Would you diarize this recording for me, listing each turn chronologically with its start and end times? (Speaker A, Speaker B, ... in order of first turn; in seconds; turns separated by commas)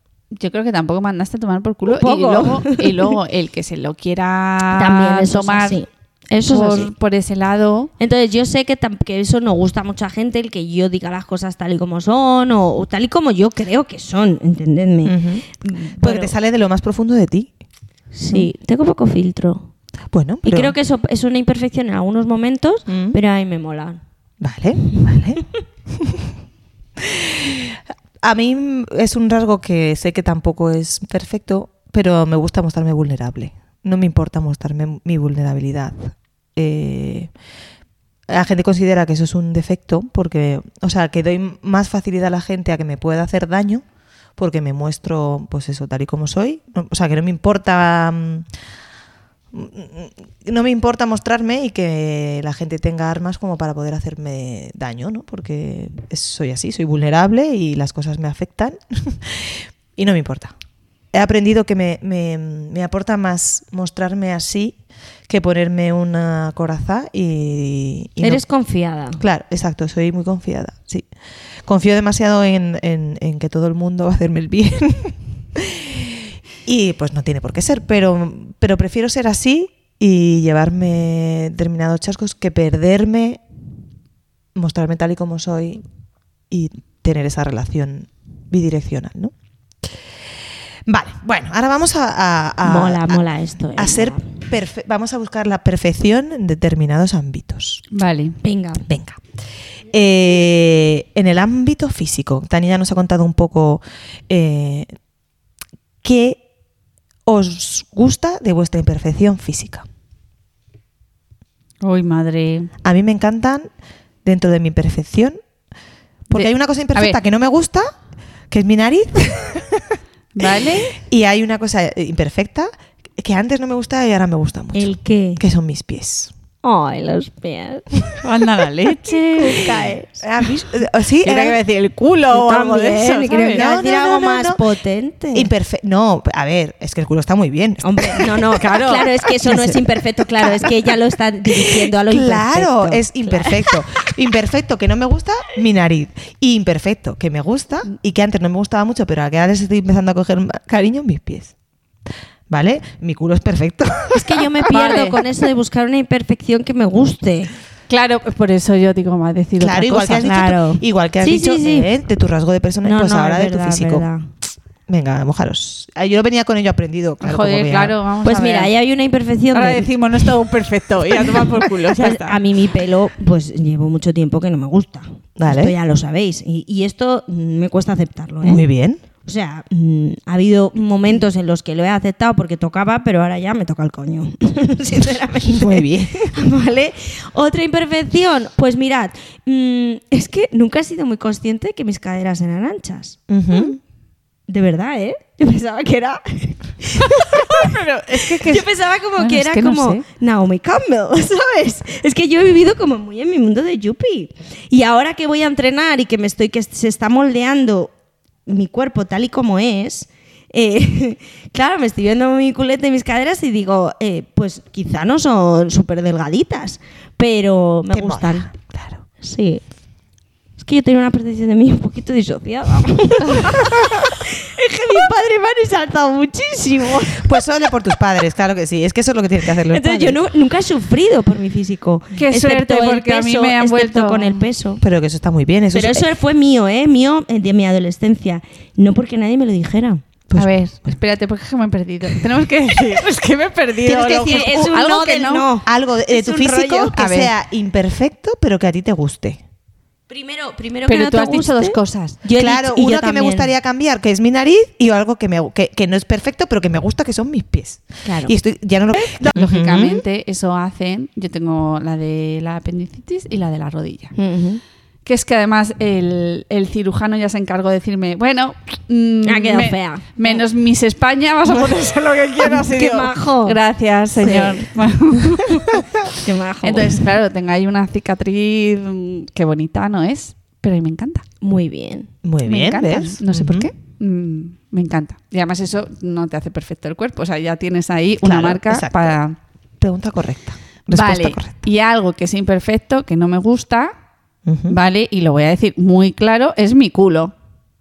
Speaker A: 0.3-5.8, Speaker B: 1.9-3.1, Speaker B: 4.7-6.9, Speaker A: 6.5-7.9, Speaker B: 8.0-16.3, Speaker C: 15.1-15.4, Speaker C: 16.0-17.5, Speaker B: 18.1-19.7, Speaker C: 20.1-20.8, Speaker B: 20.4-24.0, Speaker C: 22.9-23.2, Speaker C: 24.4-26.3, Speaker C: 27.0-37.3, Speaker C: 38.3-43.8, Speaker C: 44.4-48.5, Speaker C: 49.5-60.5, Speaker C: 61.1-64.8, Speaker C: 65.3-68.4, Speaker B: 68.2-69.2, Speaker C: 69.2-71.1, Speaker C: 71.7-83.4, Speaker C: 84.5-85.8, Speaker C: 86.5-89.3, Speaker C: 90.9-93.2, Speaker B: 92.6-94.3, Speaker C: 93.8-97.8, Speaker A: 97.9-98.4, Speaker B: 98.4-98.9, Speaker C: 98.9-99.2, Speaker C: 99.9-104.9, Speaker C: 106.0-106.4, Speaker C: 107.3-109.9, Speaker A: 111.8-112.7, Speaker C: 112.8-113.7, Speaker C: 114.2-115.4, Speaker C: 116.3-117.9, Speaker A: 116.3-117.2, Speaker C: 118.5-120.0, Speaker A: 120.3-120.9, Speaker C: 121.0-126.3, Speaker B: 124.7-125.4, Speaker B: 126.6-127.9, Speaker A: 128.2-129.7, Speaker B: 129.3-130.2, Speaker C: 130.2-131.6, Speaker A: 131.2-133.6, Speaker B: 132.3-135.5, Speaker C: 133.5-134.6, Speaker C: 135.3-138.7, Speaker B: 137.8-143.8, Speaker A: 138.6-139.7, Speaker C: 140.4-140.7, Speaker C: 141.5-151.5, Speaker C: 152.5-154.6, Speaker B: 154.1-157.5, Speaker A: 154.7-155.1, Speaker A: 157.9-160.3, Speaker C: 159.6-164.1, Speaker B: 160.2-161.9, Speaker B: 162.8-164.3, Speaker C: 164.9-168.0, Speaker A: 167.2-168.7, Speaker B: 168.2-169.9, Speaker A: 169.5-172.4, Speaker B: 171.9-178.6, Speaker C: 175.4-175.7, Speaker C: 178.4-179.0, Speaker B: 179.2-193.7, Speaker C: 185.4-186.3, Speaker C: 193.3-193.8, Speaker B: 194.5-207.9, Speaker A: 197.0-198.7, Speaker A: 199.2-200.1, Speaker B: 208.5-218.5, Speaker C: 217.9-219.0, Speaker B: 219.2-219.6, Speaker B: 220.6-227.4, Speaker C: 227.2-230.2, Speaker B: 229.7-234.8, Speaker A: 232.2-234.4, Speaker C: 234.8-236.1, Speaker B: 235.7-240.1, Speaker C: 240.3-240.5, Speaker A: 240.3-245.5, Speaker C: 243.8-244.9, Speaker B: 244.2-247.1, Speaker C: 245.6-249.4, Speaker A: 247.0-247.3, Speaker B: 250.1-253.5, Speaker A: 250.9-252.2, Speaker C: 252.4-260.0, Speaker B: 258.1-258.4, Speaker A: 259.0-264.1, Speaker B: 264.1-264.6, Speaker A: 265.1-275.8, Speaker B: 269.2-270.4, Speaker B: 272.4-273.6, Speaker B: 274.2-274.7, Speaker B: 275.5-277.0, Speaker A: 276.6-281.2, Speaker B: 281.4-282.1, Speaker C: 282.2-283.7, Speaker A: 282.4-289.4, Speaker C: 288.2-289.1, Speaker C: 289.8-291.6, Speaker A: 290.9-293.9, Speaker C: 294.4-294.8, Speaker A: 294.7-297.3